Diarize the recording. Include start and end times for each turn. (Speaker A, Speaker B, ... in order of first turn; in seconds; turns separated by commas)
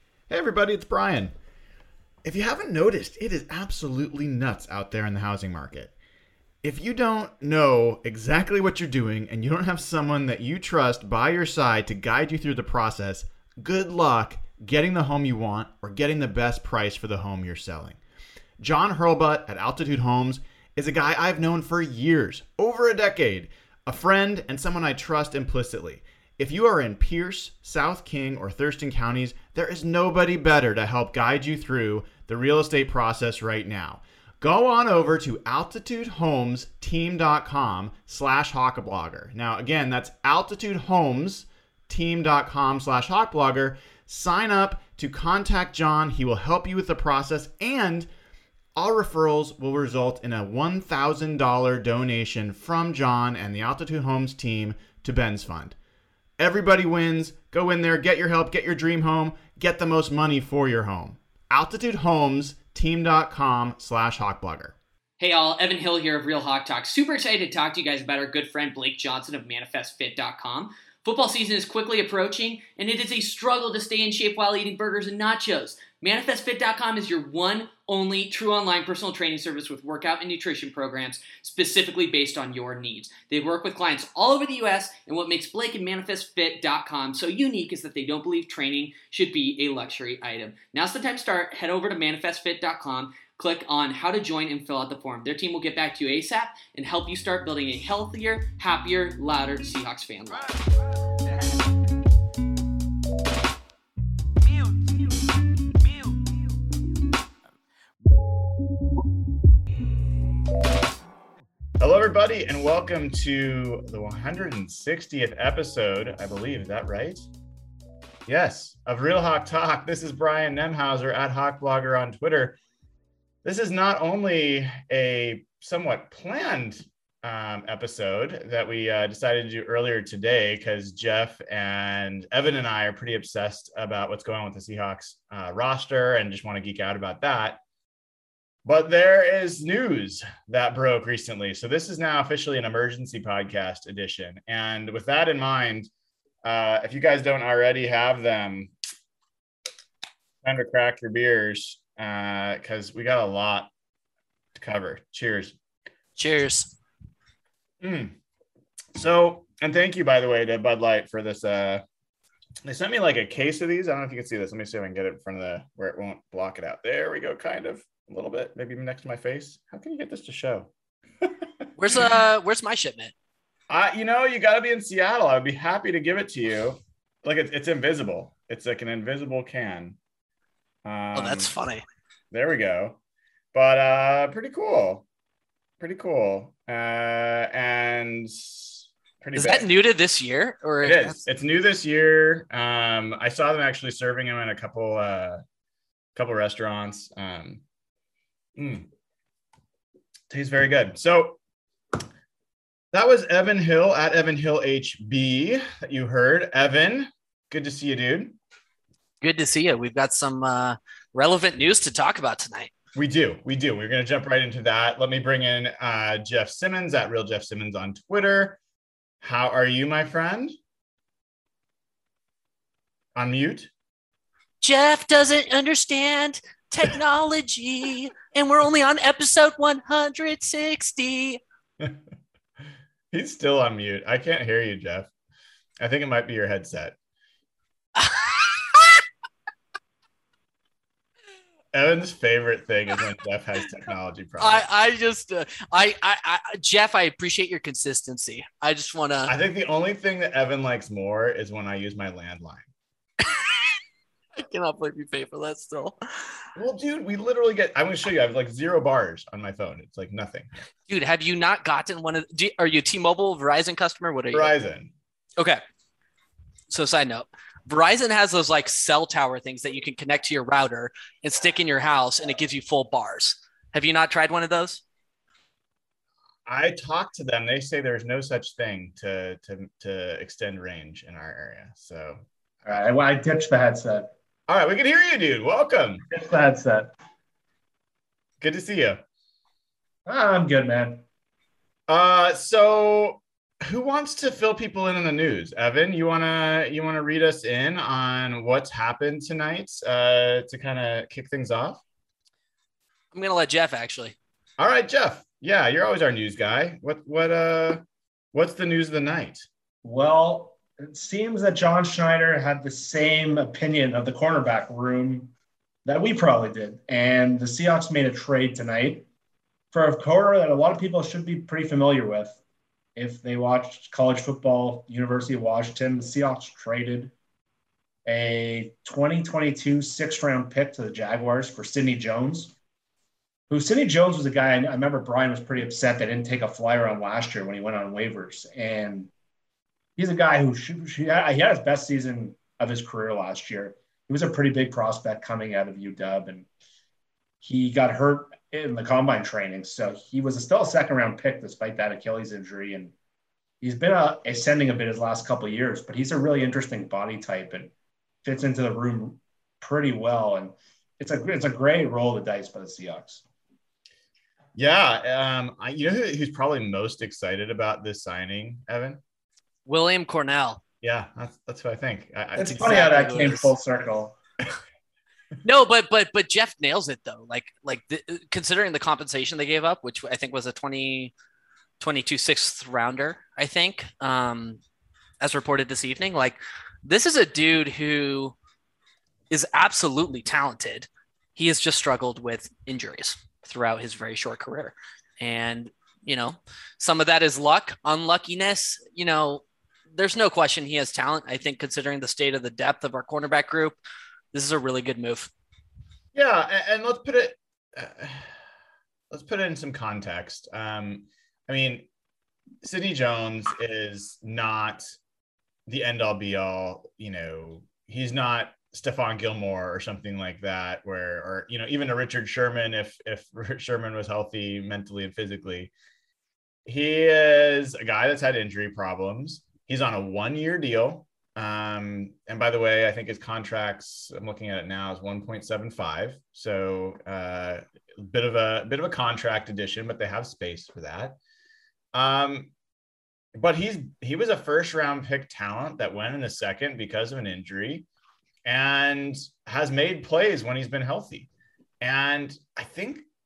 Speaker A: 0.3-1.3, Speaker A: 2.2-6.0, Speaker A: 6.6-18.0, Speaker A: 18.6-48.1, Speaker A: 48.8-55.8, Speaker A: 56.4-64.8, Speaker B: 65.2-100.5, Speaker A: 111.8-117.3, Speaker A: 118.3-122.6, Speaker A: 123.4-137.6, Speaker A: 138.7-145.9, Speaker A: 146.4-148.7, Speaker A: 150.4-153.7, Speaker A: 154.6-155.6, Speaker C: 156.2-156.8, Speaker A: 157.8-158.2, Speaker A: 158.9-161.8, Speaker A: 162.6-170.7, Speaker C: 171.8-173.1, Speaker A: 173.7-180.0, Speaker A: 180.8-181.5, Speaker C: 181.2-181.8, Speaker A: 182.3-183.0, Speaker A: 183.5-185.1, Speaker A: 185.8-189.7, Speaker C: 189.3-191.2, Speaker A: 190.8-195.4, Speaker A: 196.2-197.6, Speaker A: 198.6-198.9, Speaker A: 200.3-201.4, Speaker A: 202.9-208.4, Speaker C: 209.2-212.7, Speaker A: 212.9-218.6, Speaker A: 219.2-220.6, Speaker A: 223.2-223.7, Speaker C: 224.6-231.4, Speaker A: 233.1-235.1, Speaker A: 235.8-237.0, Speaker C: 238.0-238.8, Speaker A: 241.7-244.7, Speaker C: 244.4-249.3, Speaker A: 249.3-252.7, Speaker C: 253.2-253.7, Speaker C: 254.4-256.0, Speaker A: 256.6-260.5, Speaker C: 260.9-264.5, Speaker A: 264.3-264.9, Speaker C: 266.7-274.8, Speaker A: 276.5-282.7, Speaker D: 282.7-284.1, Speaker A: 284.5-286.1, Speaker D: 286.1-286.9, Speaker A: 288.4-289.0, Speaker D: 290.1-291.0, Speaker A: 291.9-301.8, Speaker C: 303.1-304.2, Speaker A: 304.6-307.8, Speaker A: 308.3-309.5, Speaker D: 309.8-315.3, Speaker D: 315.9-319.1, Speaker D: 319.7-322.4, Speaker D: 323.0-327.1, Speaker D: 328.1-332.6, Speaker D: 333.5-339.1, Speaker D: 340.0-346.5, Speaker D: 347.4-352.9, Speaker D: 353.6-357.7, Speaker D: 358.2-363.2, Speaker A: 364.6-369.0, Speaker C: 369.7-370.6, Speaker A: 370.8-373.4, Speaker D: 372.4-374.1, Speaker C: 372.8-373.5, Speaker C: 375.4-381.1, Speaker C: 381.8-384.6, Speaker C: 385.2-388.4, Speaker C: 389.3-403.8, Speaker C: 404.3-405.3, Speaker A: 406.1-408.4, Speaker A: 409.1-411.9, Speaker A: 412.6-414.8, Speaker A: 415.7-425.7, Speaker A: 426.7-441.2, Speaker A: 441.9-442.5, Speaker A: 443.3-447.9, Speaker A: 448.4-451.3, Speaker A: 451.8-453.1